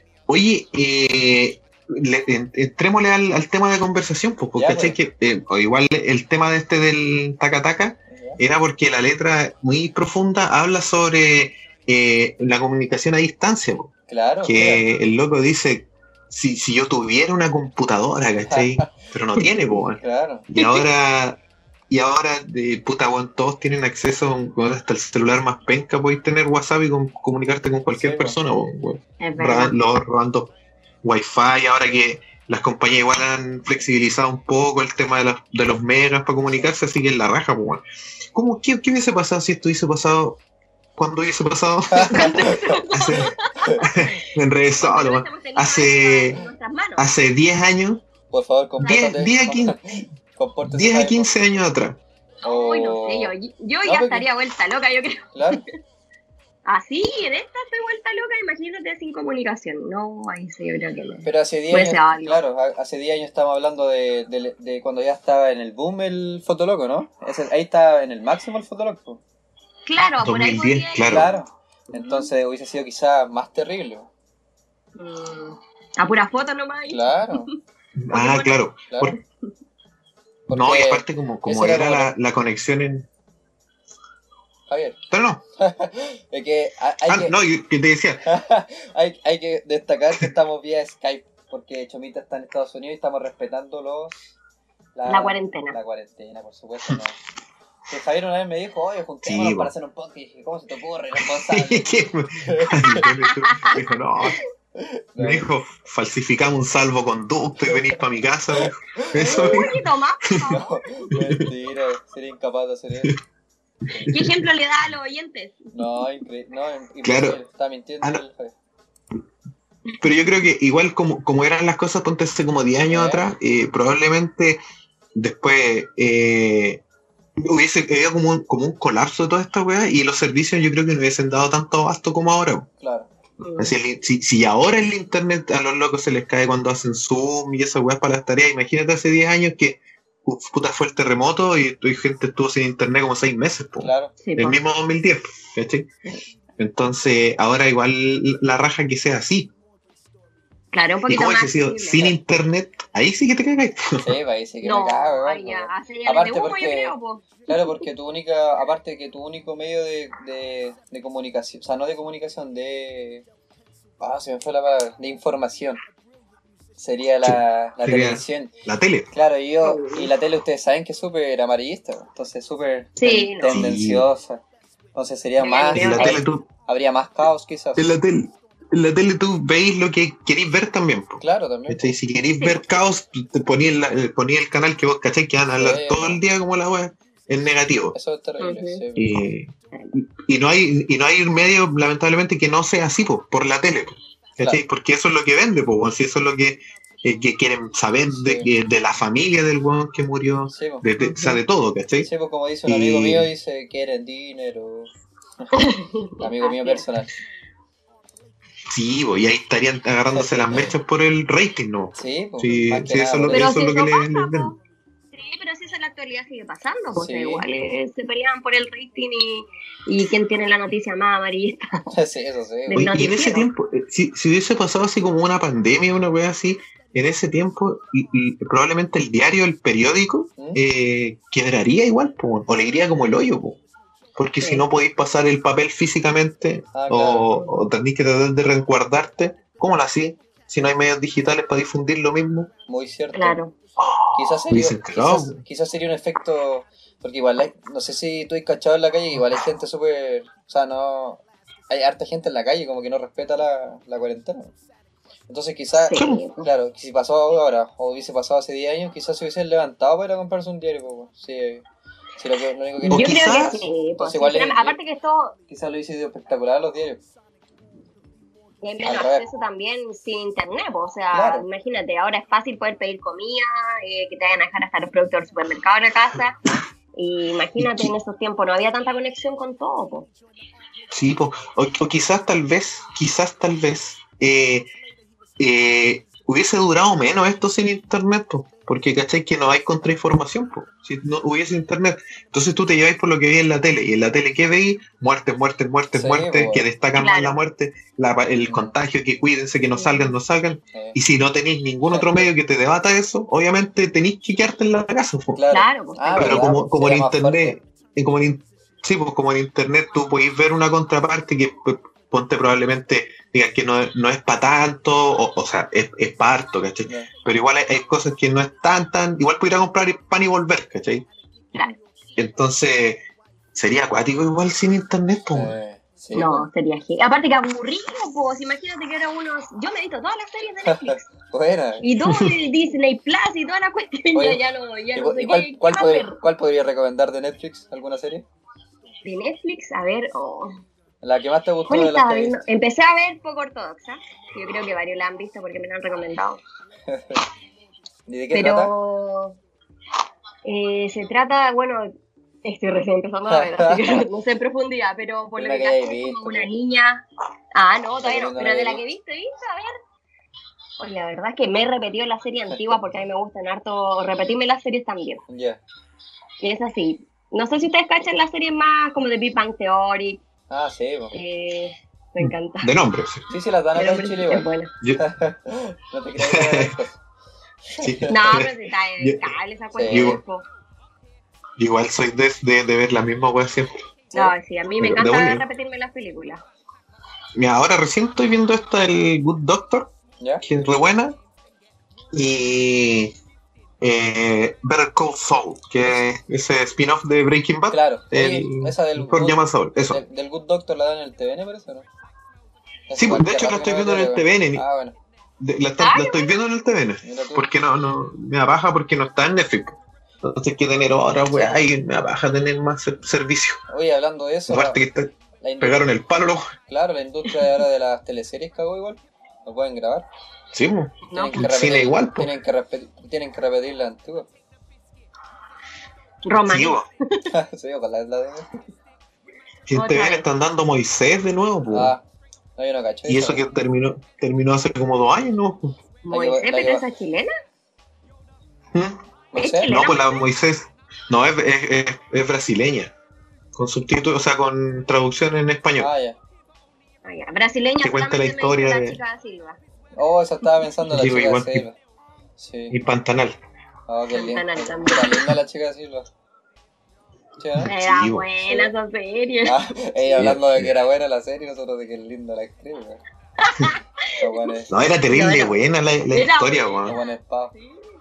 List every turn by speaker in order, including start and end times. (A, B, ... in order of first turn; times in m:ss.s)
0:00.3-0:13.9 A
0:04.6-0:05.0 B
0:08.1-0:08.4 B
0:14.1-0:14.8 B
0:14.4-0:37.8 A
0:18.5-0:18.9 B
0:20.0-0:20.5 B
0:20.6-0:20.9 C
0:27.9-0:28.4 B
0:29.2-0:29.8 C
0:38.3-0:40.4 A
0:41.0-0:46.4 A
0:41.9-0:42.9 B
0:42.1-0:47.1 C
0:43.6-0:43.9 B
0:47.0-0:48.0 A
0:48.3-0:51.6 B
0:48.8-0:49.9 A
0:48.8-0:49.1 C
0:50.7-0:52.0 A
0:52.4-0:55.6 C
0:52.4-0:54.3 B
0:55.3-0:55.6 B
0:56.7-1:02.4 C
1:01.2-1:09.2 B
1:09.9-1:11.4 C
1:10.2-1:11.3 A
1:11.1-1:14.1 B
1:11.9-1:12.3 C
1:15.0-1:17.5 C
1:16.9-1:17.5 B
1:18.0-1:18.8 A
1:18.1-1:19.2 C
1:18.9-1:19.2 B
1:20.5-1:22.1 B
1:20.5-1:23.1 A
1:24.7-1:25.0 B
1:25.1-1:25.4 A
1:25.6-1:27.4 B
1:27.1-1:28.2 A
1:28.2-1:34.3 B
1:35.0-1:37.2 B
1:35.1-1:35.8 C
1:37.9-1:41.9 B
1:39.2-1:39.7 A
1:41.2-1:44.4 A
1:42.4-1:43.1 B
1:42.8-1:43.8 C
1:44.8-1:45.5 B
1:45.2-1:49.7 A
1:48.6-1:49.7 B
1:49.2-1:51.1 C
1:50.5-1:53.1 B
1:51.1-1:51.4 A
1:53.9-1:54.2 B
1:53.9-1:54.2 A
1:54.1-1:55.8 C
1:55.8-1:58.5 B
1:57.0-1:57.4 A
2:00.0-2:04.6 A
2:02.9-2:03.3 B
2:05.2-2:06.8 A
2:07.4-2:12.7 A
2:12.8-2:13.1 B
2:13.4-2:13.7 C
2:13.6-2:25.9 A
2:23.8-2:24.1 B
2:24.2-2:24.6 C
2:26.6-2:29.5 A
2:30.7-2:32.2 C
2:31.1-2:34.1 A
2:34.0-2:36.9 B
2:34.6-2:37.8 C
2:37.5-2:43.2 B
2:44.0-2:45.8 B
2:46.8-2:48.5 B
2:47.2-2:49.1 A
2:49.1-2:54.4 B
2:49.6-2:50.1 C
2:53.0-2:53.6 C
2:53.5-2:54.1 A
2:55.0-2:57.9 B
2:55.4-2:56.2 C
2:55.7-2:56.5 A
2:57.8-3:08.0 A
3:01.2-3:01.9 B
3:02.4-3:02.6 C
3:05.6-3:06.2 B
3:07.9-3:09.2 B
3:08.4-3:08.8 C
3:09.0-3:22.1 A
3:18.1-3:18.5 B
3:20.5-3:20.9 B
3:21.0-3:21.4 C
3:22.0-3:24.9 B
3:22.7-3:23.3 A
3:25.5-3:26.8 C
3:26.2-3:27.1 B
3:28.7-3:34.5 A
3:30.2-3:30.8 B
3:32.0-3:33.5 B
3:33.3-3:34.6 C
3:35.1-3:41.8 C
3:37.0-3:37.5 B
3:41.9-3:42.9 B
3:42.7-3:43.5 C
3:42.8-3:53.6 A
3:54.2-4:02.5 A
3:54.4-3:54.7 C
3:56.7-3:57.5 B
4:02.7-4:03.4 B
4:03.1-4:03.5 C
4:03.8-4:05.4 A
4:04.1-4:14.5 B
4:15.3-4:21.6 B
4:15.8-4:16.5 C
4:16.0-4:16.2 A
4:22.2-4:24.8 B
4:22.8-4:23.6 A
4:22.9-4:25.4 C
4:25.5-4:27.0 B
4:28.6-4:36.4 C
4:28.8-4:29.2 B
4:31.1-4:31.5 B
4:37.0-4:40.1 C
4:37.6-4:37.9 A
4:40.9-4:44.7 A
4:45.4-5:05.4 A
4:55.9-4:56.7 B
4:57.0-4:57.4 C
4:58.4-4:58.8 B
4:59.7-5:00.1 C
5:01.9-5:02.3 B
5:05.4-5:07.6 B
5:05.5-5:06.4 C
5:06.1-5:21.1 A
5:22.2-5:23.0 A
5:23.5-5:25.6 A
5:25.3-5:26.5 B
5:26.2-5:31.0 C
5:30.6-5:31.8 B
5:31.8-5:36.2 C
5:32.0-5:32.3 A
5:34.1-5:34.4 B
5:35.0-5:38.2 B
5:39.0-5:40.6 C
5:41.0-5:42.4 B
5:41.7-5:46.4 C
5:46.9-5:47.2 B
5:48.1-5:48.7 B
5:48.3-5:49.4 C
5:50.4-5:51.9 C
5:52.4-5:57.0 C
5:53.3-5:54.1 B
5:55.4-5:56.5 B
5:57.6-5:59.8 C
5:58.0-5:58.8 B
6:00.8-6:05.2 C
6:05.3-6:05.6 B
6:06.4-6:10.2 C
6:10.5-6:11.2 B
6:11.1-6:12.7 C
6:12.2-6:13.3 A
6:13.3-6:14.4 B
6:13.8-6:14.7 C
6:15.0-6:17.0 B
6:16.2-6:16.8 A
6:17.7-6:18.1 B
6:17.8-6:19.3 A
6:18.1-6:20.5 C
6:19.7-6:20.2 B
6:19.9-6:20.2 A
6:21.6-6:23.7 A
6:24.1-6:26.4 C
6:24.8-6:25.4 A
6:27.4-6:29.9 A
6:30.2-6:30.4 B
6:30.4-6:31.2 A
6:32.1-6:33.1 A
6:33.8-6:40.0 A
6:37.7-6:41.9 B
6:42.9-6:45.0 B
6:43.0-6:44.6 A
6:45.4-6:53.6 A
6:45.8-6:46.4 C
6:47.0-6:47.5 B
6:53.7-6:54.8 B
6:54.5-6:56.5 A
6:55.4-6:55.9 B
6:56.7-7:00.1 B
7:00.5-7:02.3 A
7:01.0-7:01.4 C
7:01.1-7:04.3 B
7:06.2-7:07.3 C
7:06.5-7:06.9 A
7:07.3-7:08.5 B
7:09.7-7:11.9 A
7:09.8-7:10.3 C
7:11.7-7:12.0 B
7:12.6-7:13.4 B
7:13.1-7:15.8 A
7:16.0-7:17.3 C
7:16.1-7:16.8 B
7:18.7-7:19.0 A
7:19.3-7:19.8 B
7:19.4-7:20.3 C
7:19.6-7:22.9 A
7:23.5-7:25.9 A
7:25.8-7:26.2 B
7:27.0-7:29.6 C
7:27.8-7:29.0 A
7:30.0-7:31.8 B
7:30.9-7:31.6 A
7:32.4-7:32.8 B
7:32.7-7:33.4 A
7:33.9-7:36.1 B
7:34.1-7:35.4 C
7:37.4-7:37.7 B
7:37.5-7:38.3 A
7:37.6-7:39.7 C
7:39.5-7:43.0 B
7:40.2-7:40.7 A
7:43.4-7:44.5 C
7:44.2-7:44.7 B
7:44.7-7:47.0 A
7:45.1-7:45.6 C
7:46.1-7:47.1 C
7:46.9-7:47.5 B